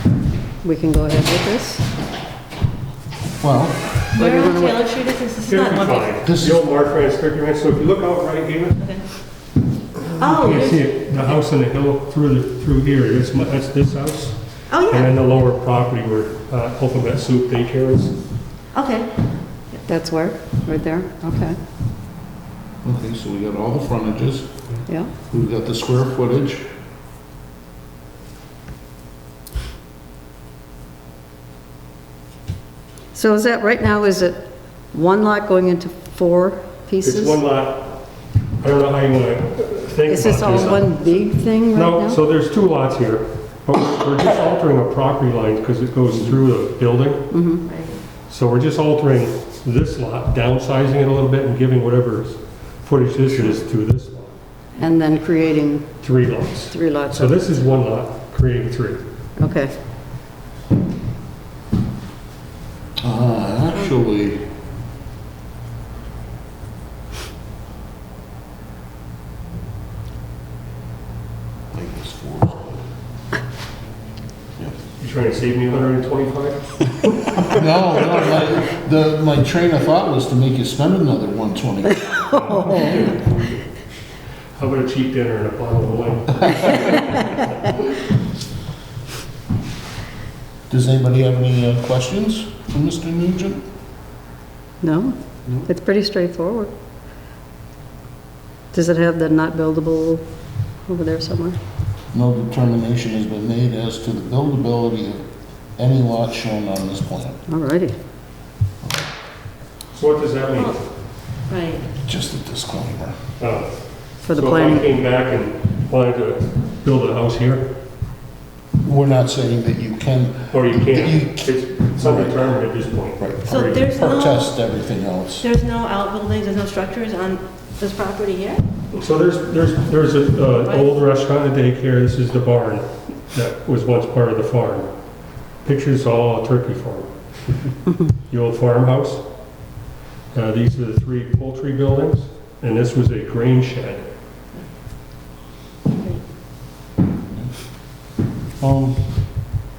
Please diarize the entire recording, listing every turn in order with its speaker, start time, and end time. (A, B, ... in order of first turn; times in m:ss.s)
0:00.6-0:01.9 A
0:03.4-0:04.0 B
0:04.1-0:06.2 C
0:04.2-0:04.8 A
0:05.4-0:08.8 D
0:06.2-0:06.6 B
0:08.8-0:09.0 C
0:10.1-0:18.2 D
0:10.2-0:11.3 C
0:14.7-0:15.2 C
0:18.7-0:19.1 C
0:19.9-0:21.6 A
0:22.8-0:24.5 B
0:25.3-0:26.7 B
0:33.1-0:37.4 A
0:37.0-0:38.0 D
0:38.6-0:40.9 D
0:40.1-0:42.2 A
0:40.4-0:40.8 B
0:41.7-0:47.4 D
0:47.3-0:47.6 A
0:47.6-0:48.0 C
0:48.3-0:54.3 D
0:54.8-0:55.9 A
0:56.0-0:59.0 D
0:56.7-0:57.6 A
0:59.4-0:59.7 A
1:03.0-1:04.5 B
1:11.7-1:12.8 B
1:15.0-1:16.8 D
1:17.4-1:22.2 B
1:22.3-1:23.6 D
1:22.3-1:23.1 A
1:24.6-1:27.7 D
1:30.7-1:33.6 B
1:34.8-1:36.7 A
1:38.7-1:40.2 A
1:40.9-1:41.6 A
1:42.1-1:45.2 B
1:45.8-1:47.4 B
1:47.5-1:47.9 A
1:49.9-1:50.9 D
1:50.5-1:50.8 C
1:51.5-1:51.9 C
1:52.0-1:53.2 B
1:53.4-1:57.7 D
1:54.2-1:54.9 A
1:58.8-2:02.6 B
2:00.5-2:03.9 D
2:03.2-2:05.5 B
2:03.5-2:04.5 C
2:05.4-2:08.6 C
2:08.9-2:14.9 D
2:10.6-2:10.9 C
2:15.6-2:17.1 D
2:18.3-2:19.2 D
2:20.3-2:24.1 D
2:25.9-2:26.2 C
2:28.6-2:29.1 B